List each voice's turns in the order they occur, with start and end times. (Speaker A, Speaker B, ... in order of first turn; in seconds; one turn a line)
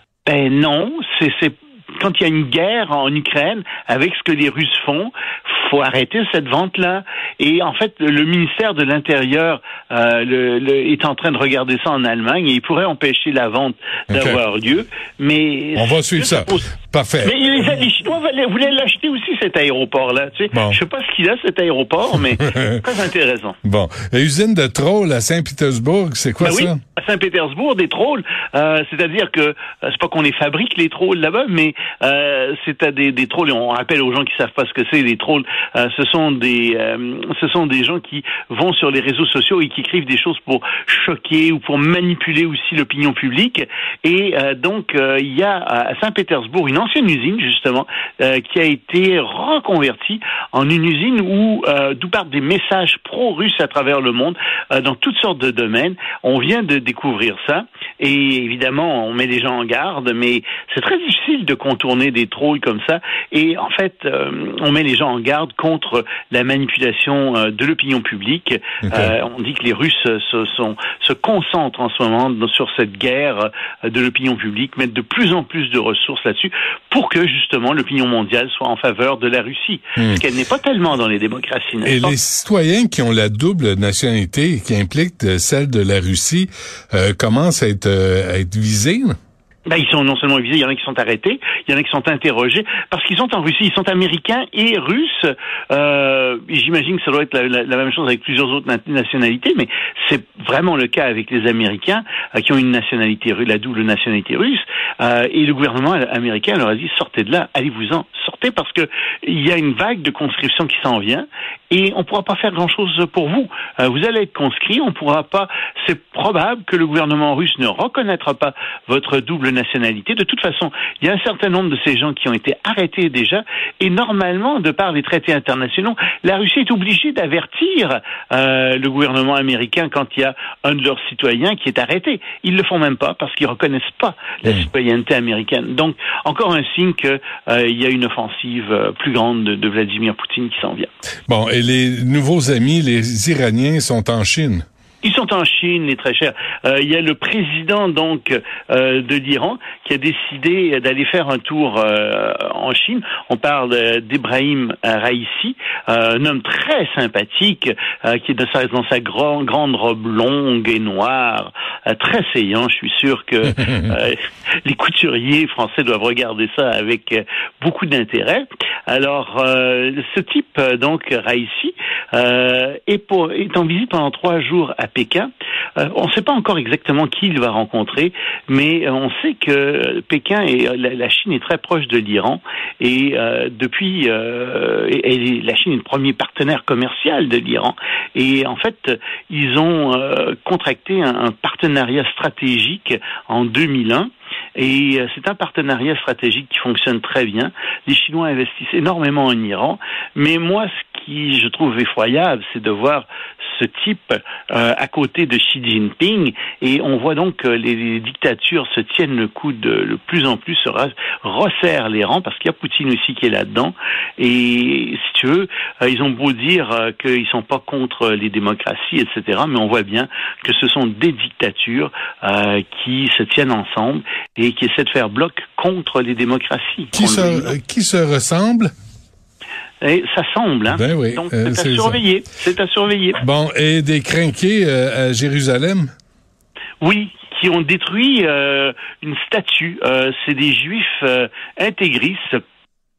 Speaker A: 0.2-23.6
Speaker B: 14.1-14.4
Speaker B: 15.7-17.4
Speaker B: 20.5-20.8
Speaker B: 22.5-22.8
Speaker B: 23.6-26.8
Speaker A: 26.4-82.2
Speaker B: 81.8-89.2
Speaker A: 89.7-140.9
Speaker B: 141.3-144.7
Speaker A: 145.0-227.6
Speaker B: 226.9-228.7
Speaker A: 229.8-233.2
Speaker B: 230.7-232.0
Speaker B: 233.2-235.9
Speaker A: 236.8-242.4